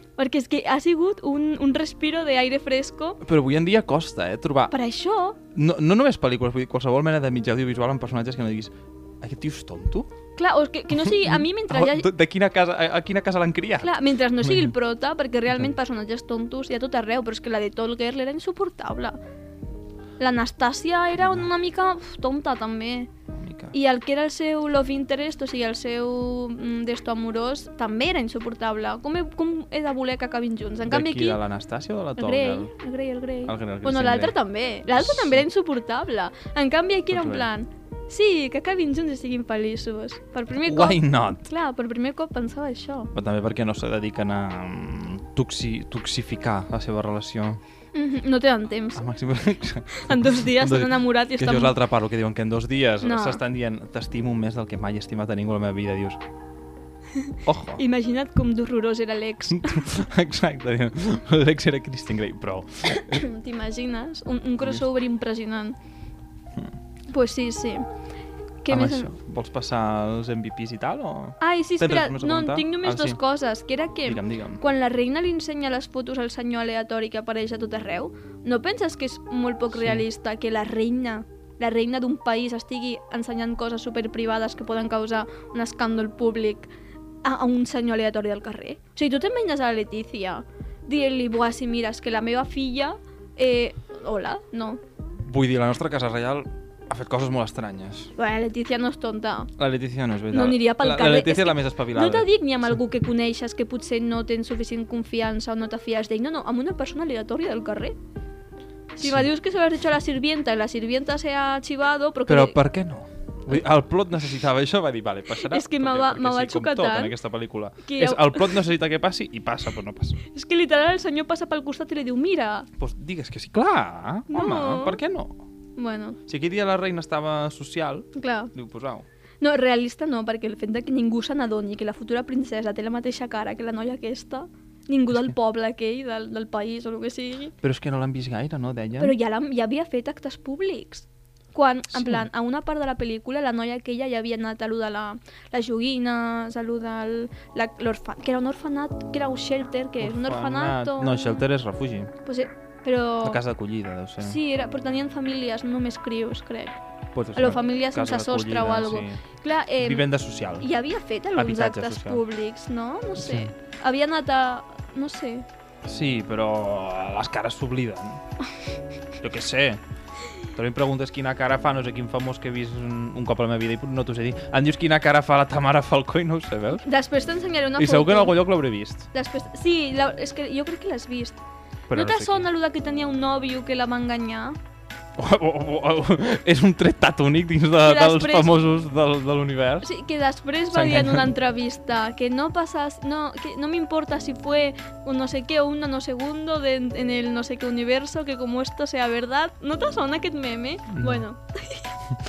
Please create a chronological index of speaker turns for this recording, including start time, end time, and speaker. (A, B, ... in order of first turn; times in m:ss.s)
0:00.2-0:03.2 A
0:03.2-0:04.7 B
0:04.7-0:05.4 A
0:05.5-0:10.1 B
0:10.4-0:12.1 A
0:11.0-0:14.7 B
0:13.8-0:19.2 A
0:20.2-0:23.1 A
0:21.2-0:21.5 B
0:23.3-0:23.7 B
0:23.7-0:31.4 A
0:30.8-0:32.7 B
0:32.2-0:43.1 A
0:33.4-0:34.4 B
0:34.9-0:35.4 B
0:37.1-0:37.5 B
0:40.6-0:41.4 B
0:43.1-0:47.6 B
0:47.9-0:49.0 A
0:49.0-0:56.2 B
0:49.9-0:51.7 A
0:53.0-0:53.4 A
0:57.3-0:59.9 A
0:57.4-0:57.8 B
0:59.5-1:03.2 B
1:03.0-1:05.8 A
1:07.1-1:07.8 A
1:08.6-1:09.1 A
1:08.7-1:13.2 B
1:11.4-1:26.7 A
1:14.0-1:14.6 B
1:19.7-1:20.0 B
1:27.2-1:34.8 A
1:35.2-1:38.1 B
1:38.2-1:39.5 A
1:39.6-1:42.3 B
1:40.3-1:48.0 A
1:48.9-1:52.6 A
1:49.0-1:49.3 B
1:52.3-2:00.2 B
1:55.5-1:57.1 A
1:57.8-1:58.6 A
2:00.2-2:02.7 A
2:02.8-2:05.4 B
2:04.3-2:05.0 A
2:05.8-2:06.2 A
2:06.3-2:09.0 B
2:08.2-2:08.5 A
2:09.4-2:17.5 A
2:17.6-2:19.1 B
2:19.0-2:31.2 A
2:21.9-2:22.2 B
2:30.0-2:32.1 B
2:32.2-2:33.4 A
2:33.2-2:34.4 B
2:34.2-2:36.8 A
2:37.1-2:39.2 B
2:37.3-2:40.0 A
2:39.8-2:40.7 B
2:40.6-2:45.4 A
2:41.3-2:42.2 B
2:43.2-2:43.5 B
2:45.8-2:48.2 B
2:49.2-2:49.8 B
2:50.5-2:56.8 B
2:56.8-2:58.4 A
2:57.8-2:59.1 B
2:59.1-3:04.6 A
3:01.9-3:02.5 B
3:05.2-3:09.9 B
3:07.8-3:08.6 A
3:09.8-3:21.9 A
3:10.7-3:11.3 B
3:20.9-3:21.2 B